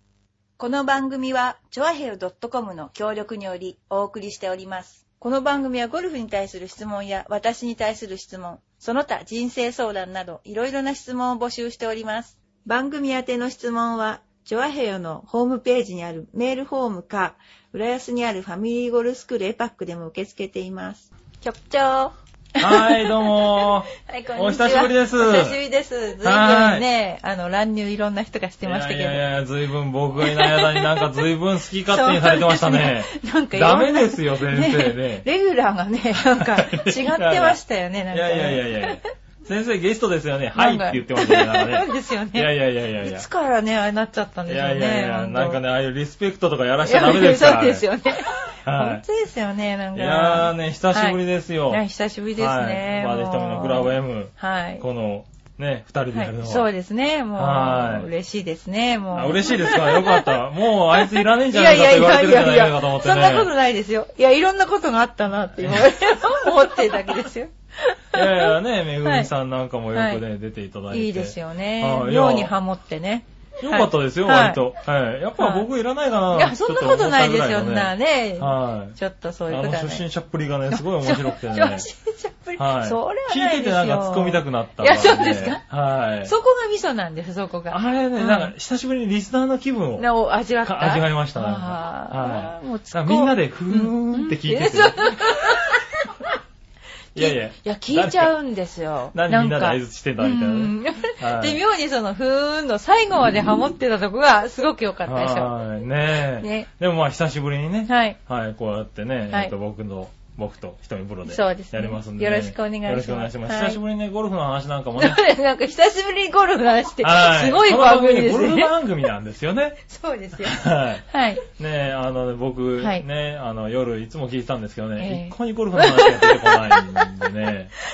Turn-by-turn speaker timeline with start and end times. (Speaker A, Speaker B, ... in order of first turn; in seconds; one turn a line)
Speaker A: 0.6-29.2
Speaker B: 22.6-25.6
Speaker B: 26.2-26.9
Speaker B: 28.6-35.2
Speaker A: 30.2-31.0
Speaker A: 31.9-39.0
Speaker B: 36.2-37.6
Speaker B: 38.1-43.2
Speaker A: 40.5-45.6
Speaker B: 44.5-47.9
Speaker A: 46.9-54.9
Speaker B: 48.5-49.0
Speaker B: 49.9-51.8
Speaker B: 52.4-56.7
Speaker A: 56.1-60.3
Speaker B: 57.4-58.1
Speaker B: 59.1-63.5
Speaker A: 61.0-69.3
Speaker B: 65.6-66.2
Speaker B: 68.1-72.5
Speaker A: 69.9-70.2
Speaker A: 70.9-74.6
Speaker B: 73.6-79.0
Speaker A: 75.4-75.7
Speaker A: 76.3-80.0
Speaker B: 79.5-81.9
Speaker A: 80.7-85.6
Speaker B: 82.6-86.3
Speaker A: 86.2-88.5
Speaker B: 87.7-90.1
Speaker A: 90.0-96.3
Speaker B: 90.6-95.7
Speaker B: 97.2-98.3
Speaker A: 97.2-105.6
Speaker B: 99.1-101.6
Speaker B: 105.0-115.2
Speaker A: 106.4-106.7
Speaker A: 107.9-108.2
Speaker A: 111.2-113.8
Speaker A: 115.0-118.7
Speaker B: 117.0-119.8
Speaker A: 119.9-121.4
Speaker B: 120.4-127.7
Speaker A: 122.8-123.0
Speaker A: 125.0-127.3